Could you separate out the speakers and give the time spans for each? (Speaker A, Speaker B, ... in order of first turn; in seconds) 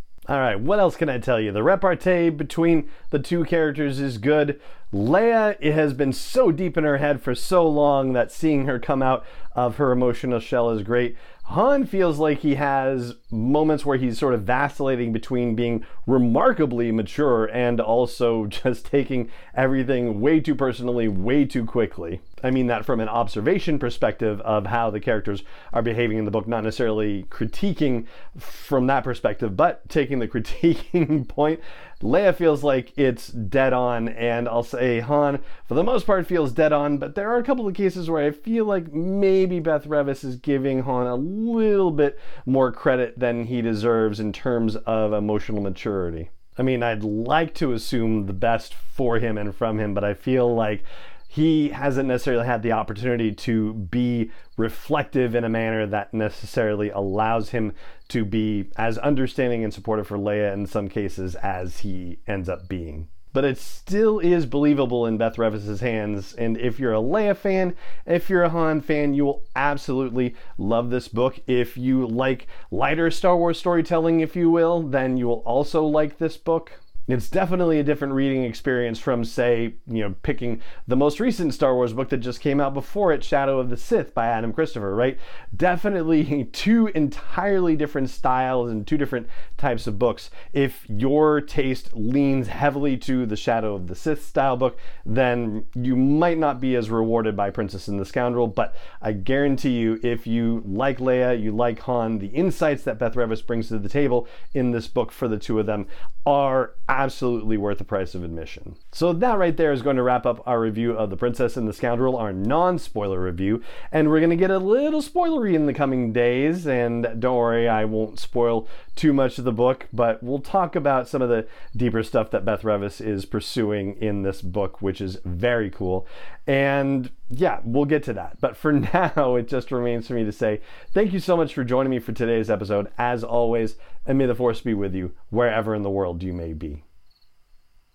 Speaker A: 0.3-136.8